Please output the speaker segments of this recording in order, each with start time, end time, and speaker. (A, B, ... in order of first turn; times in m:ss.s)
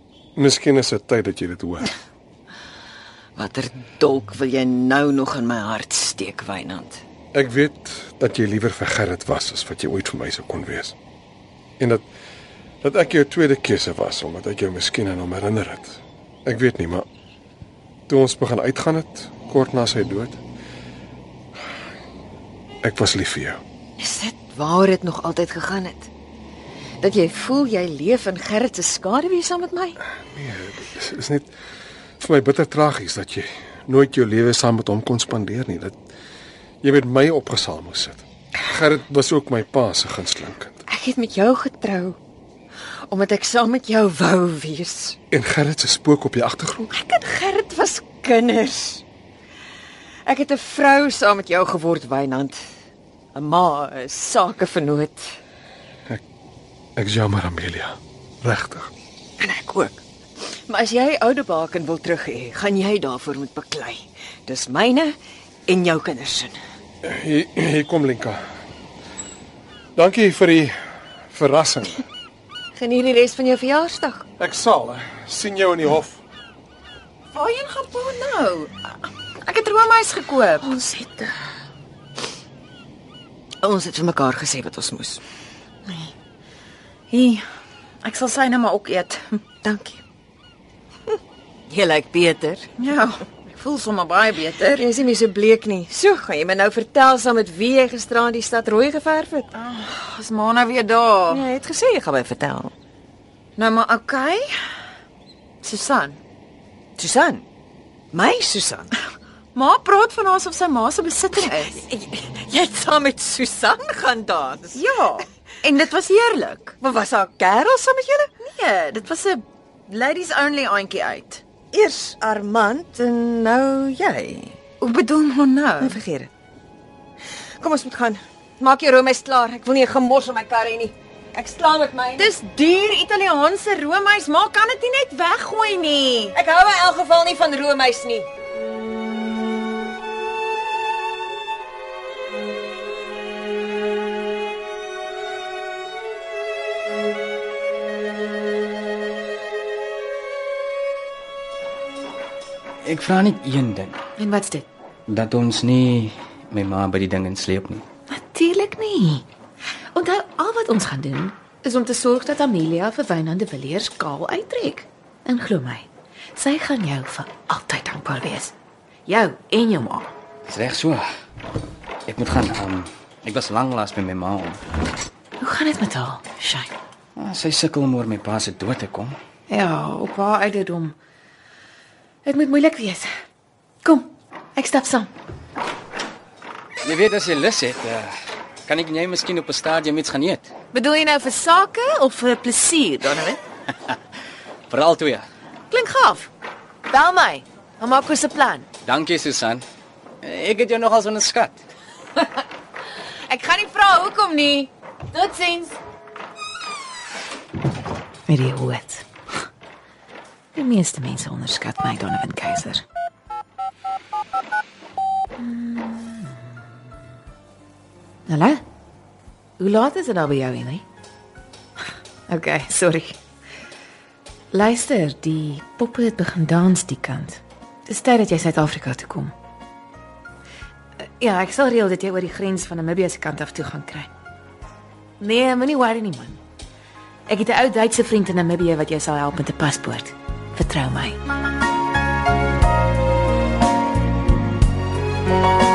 0:00.4-0:01.9 A
0:03.4-0:07.0 B
0:07.3-0:11.0 A
0:11.8-0:12.1 A
0:12.8-0:17.1 A
0:18.1-0:20.4 A
0:22.8-0:23.6 A
0:24.0-0:26.1 B
0:27.0-0:30.0 B
0:30.3-0:31.5 A
0:32.2-0:36.0 A
0:36.8-0:40.8 A
0:40.9-0:42.2 B
0:43.1-0:45.2 B
0:45.3-0:46.9 A
0:46.9-0:49.0 B
0:50.2-0:52.6 B
0:53.4-0:55.4 B
0:57.0-0:58.9 A
0:59.4-1:00.0 B
1:00.7-1:05.2 B
1:05.7-1:06.6 B
1:07.0-1:08.4 A
1:10.0-1:10.8 A
1:11.3-1:12.0 A
1:12.8-1:14.2 B
1:14.4-1:16.2 A
1:17.3-1:18.7 C
1:19.4-1:20.8 C
1:20.6-1:21.3 B
1:23.6-1:25.2 B
1:27.1-1:27.4 C
1:28.0-1:29.4 C
1:29.6-1:30.0 B
1:31.7-1:32.7 B
1:32.8-1:34.9 C
1:34.8-1:39.6 B
1:39.6-1:41.4 C
1:41.3-1:42.7 B
1:43.6-1:44.5 C
1:45.6-1:46.2 C
1:47.0-1:47.4 B
1:48.1-1:48.9 B
1:49.6-1:51.8 C
1:51.4-1:54.8 B
1:54.7-1:56.8 C
1:56.8-1:58.4 B
1:58.4-2:01.4 C
2:01.7-2:04.6 B
2:04.8-2:06.0 C
2:05.8-2:06.3 B
2:07.6-2:12.4 B
2:12.2-2:16.4 C
2:16.3-2:18.3 B
2:32.8-2:34.0 D
2:34.2-2:34.7 E
2:35.1-2:37.8 D
2:38.1-2:39.2 E
2:40.0-2:48.5 E
2:49.1-2:50.1 E
2:50.5-2:51.1 D
2:52.1-2:54.6 D
2:55.4-2:56.7 E
2:57.2-2:59.1 D
2:59.5-3:01.0 E
3:02.2-3:03.1 E
3:03.8-3:05.1 E
3:06.8-3:08.1 D
3:08.6-3:10.5 D
3:10.7-3:13.4 E
3:14.7-3:15.2 D
3:15.7-3:16.3 E
3:16.9-3:18.6 E
3:18.8-3:19.6 D
3:20.2-3:21.6 D
3:23.3-3:25.7 C
3:28.3-3:29.0 E
3:30.6-3:32.8 E
3:35.4-3:36.5 E
3:38.3-3:38.6 E
3:39.6-3:40.8 E
3:42.3-3:43.2 E
3:44.5-3:49.3 E
3:51.2-3:54.1 E
3:55.2-3:56.4 E
3:57.3-4:01.2 E